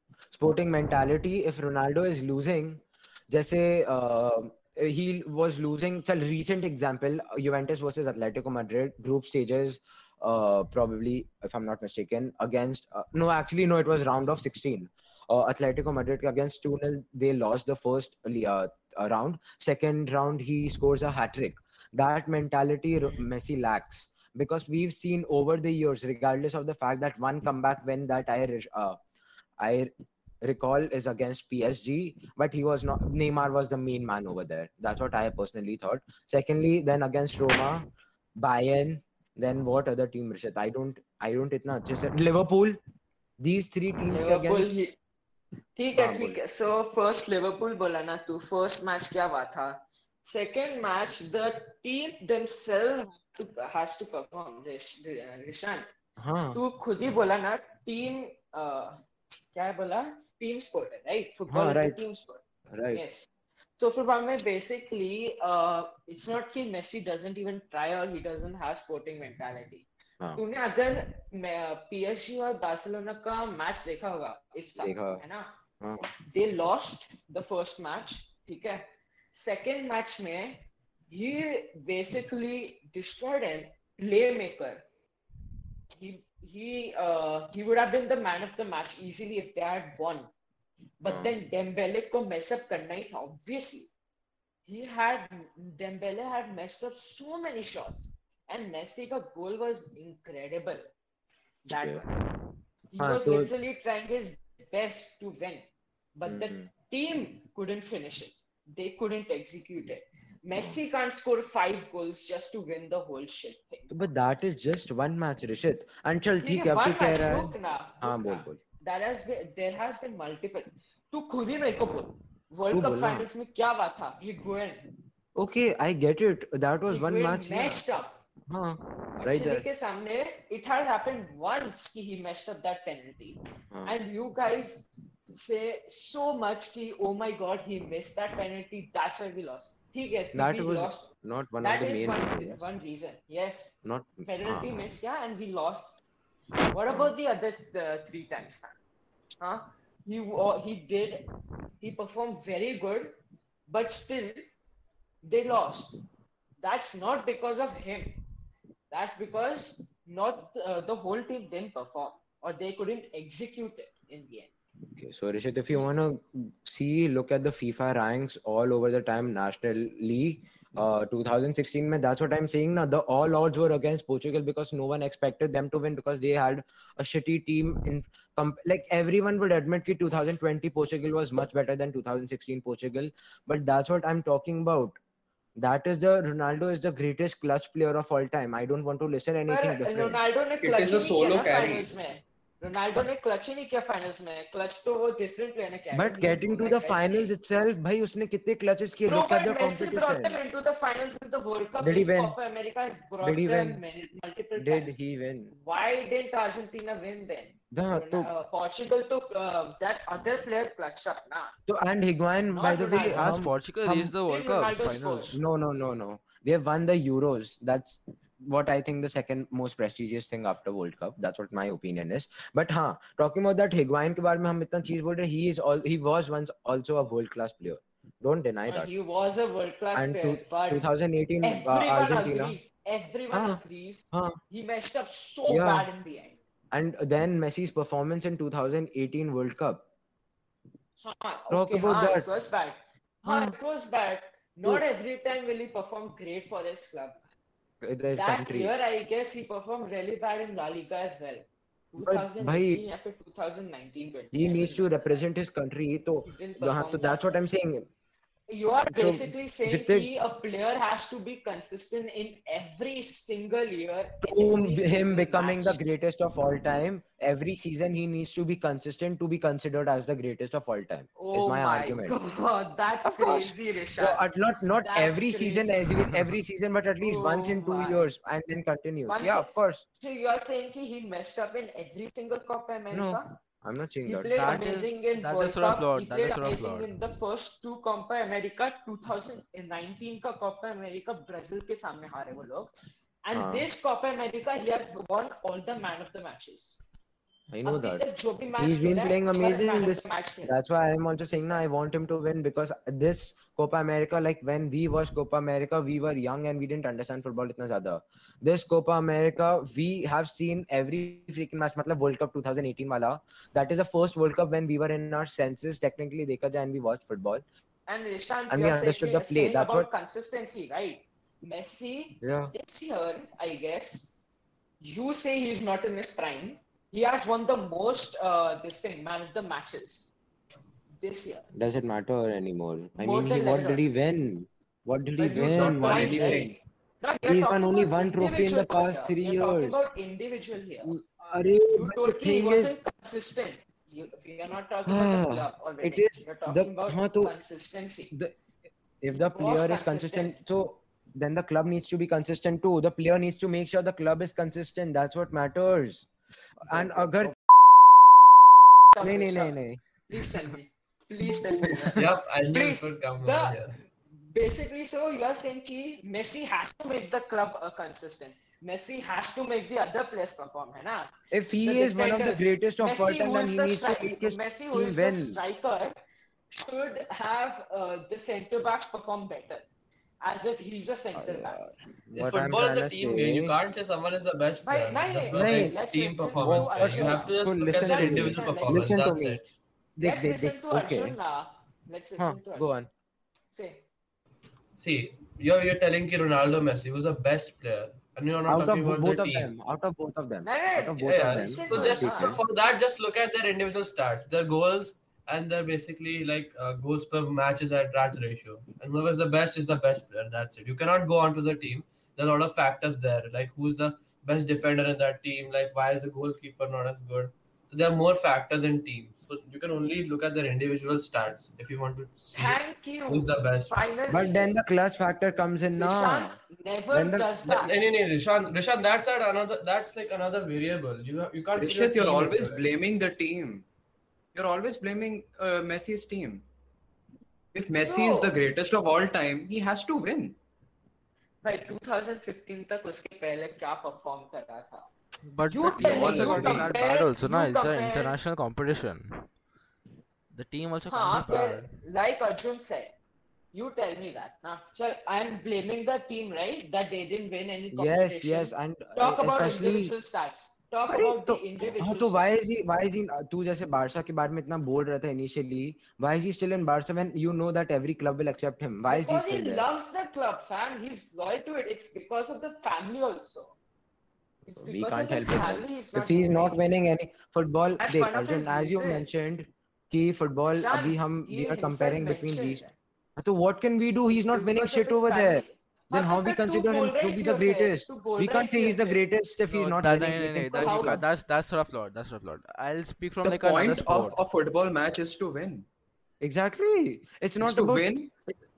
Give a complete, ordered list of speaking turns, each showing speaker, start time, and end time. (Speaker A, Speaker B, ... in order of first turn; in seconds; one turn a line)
Speaker A: 0.3-29.0
Speaker A: 29.6-42.8
Speaker A: 43.4-44.7
Speaker B: 44.1-45.0
Speaker B: 45.8-55.9
Speaker A: 46.0-46.4
Speaker A: 56.2-56.6
Speaker B: 56.5-59.0
Speaker B: 59.5-62.4
Speaker A: 61.5-62.0
Speaker A: 62.7-63.0
Speaker B: 62.9-75.5
Speaker A: 74.8-75.2
Speaker B: 76.3-84.8
Speaker B: 85.9-90.3
Speaker B: 91.0-93.9
Speaker A: 91.0-91.3
Speaker B: 94.7-100.9
Speaker B: 101.7-102.2
Speaker A: 101.7-102.0
Speaker B: 102.9-105.7
Speaker A: 103.0-103.5
Speaker B: 106.2-113.9
Speaker A: 106.3-106.7
Speaker A: 113.9-118.6
Speaker B: 116.4-124.9
Speaker A: 122.7-123.3
Speaker A: 125.4-127.8
Speaker B: 126.9-128.2
Speaker A: 128.5-129.7
Speaker B: 129.2-141.1
Speaker A: 140.3-142.7
Speaker B: 141.6-145.9
Speaker A: 143.8-144.7
Speaker B: 146.7-148.8
Speaker B: 149.4-151.3
Speaker B: 151.8-153.2
Speaker B: 153.7-154.4
Speaker B: 155.2-156.0
Speaker B: 156.6-158.2
Speaker B: 158.9-164.5
Speaker A: 164.9-185.0
Speaker A: 185.6-190.2
Speaker B: 189.5-197.3
Speaker C: 190.6-191.9
Speaker A: 195.9-200.4
Speaker B: 199.1-205.0
Speaker A: 201.8-202.4
Speaker A: 203.2-203.8
Speaker A: 204.6-205.5
Speaker B: 205.5-211.5
Speaker A: 207.7-208.3
Speaker A: 211.7-214.2
Speaker B: 212.5-213.3
Speaker D: 213.1-215.4
Speaker B: 214.2-215.3
Speaker A: 215.3-228.9
Speaker B: 228.7-230.9
Speaker A: 229.9-232.6
Speaker B: 231.4-236.4
Speaker A: 233.3-233.6
Speaker A: 234.1-234.4
Speaker A: 235.5-235.9
Speaker A: 236.7-239.8
Speaker B: 241.0-247.2
Speaker A: 241.5-242.3
Speaker A: 243.3-243.6
Speaker A: 247.8-248.7
Speaker B: 248.1-255.2
Speaker A: 252.0-252.8
Speaker A: 254.3-257.9
Speaker B: 256.3-257.4
Speaker B: 258.5-265.8
Speaker A: 258.9-260.1
Speaker A: 264.2-272.2
Speaker B: 271.2-274.2
Speaker A: 273.1-279.9
Speaker B: 274.8-275.8
Speaker B: 277.0-278.1
Speaker B: 279.1-283.4
Speaker A: 282.9-284.6
Speaker B: 284.1-292.7
Speaker D: 284.4-286.9
Speaker B: 293.2-296.8
Speaker A: 293.3-293.7
Speaker A: 297.5-298.0
Speaker B: 297.6-300.6
Speaker A: 298.6-317.4
Speaker B: 317.9-324.1
Speaker A: 318.5-319.9
Speaker A: 322.2-322.5
Speaker B: 324.8-330.1
Speaker B: 331.0-331.5
Speaker A: 331.5-336.5
Speaker B: 333.0-333.9
Speaker B: 335.2-341.0
Speaker C: 335.3-336.6
Speaker A: 337.3-339.9
Speaker A: 340.8-342.8
Speaker B: 341.8-348.1
Speaker A: 344.9-347.4
Speaker A: 349.0-356.1
Speaker B: 349.4-350.4
Speaker A: 356.6-358.4
Speaker B: 358.9-375.9
Speaker A: 359.0-359.8
Speaker A: 361.3-362.1
Speaker E: 361.9-363.8
Speaker A: 371.3-375.4
Speaker B: 376.5-379.6
Speaker B: 380.2-381.6
Speaker A: 381.1-383.6
Speaker E: 382.1-389.4
Speaker B: 384.6-389.0
Speaker A: 385.3-385.8
Speaker A: 386.3-389.5
Speaker A: 390.0-391.2
Speaker B: 390.0-392.8
Speaker A: 392.2-392.9
Speaker B: 393.5-393.8
Speaker E: 394.8-399.5
Speaker A: 398.5-402.4
Speaker B: 400.4-402.4
Speaker E: 401.0-423.8
Speaker B: 422.3-424.6
Speaker A: 424.1-426.4
Speaker B: 425.7-427.8
Speaker A: 426.9-427.3
Speaker E: 427.4-432.7
Speaker C: 431.6-433.7
Speaker C: 434.3-436.4
Speaker C: 437.5-440.4
Speaker B: 437.8-438.4
Speaker B: 441.4-444.9
Speaker D: 445.3-449.2
Speaker B: 445.5-448.1
Speaker C: 445.8-446.7
Speaker D: 450.3-451.8
Speaker B: 450.9-452.9
Speaker B: 453.5-462.3
Speaker A: 457.7-459.9
Speaker A: 460.9-469.7
Speaker B: 468.9-473.6
Speaker B: 474.5-476.6
Speaker A: 474.6-482.6
Speaker B: 477.8-479.1
Speaker B: 480.5-482.7
Speaker A: 483.2-491.0
Speaker B: 484.2-489.0
Speaker D: 489.5-494.2
Speaker B: 490.5-491.0
Speaker C: 493.2-495.7
Speaker A: 496.2-498.4
Speaker C: 497.4-498.1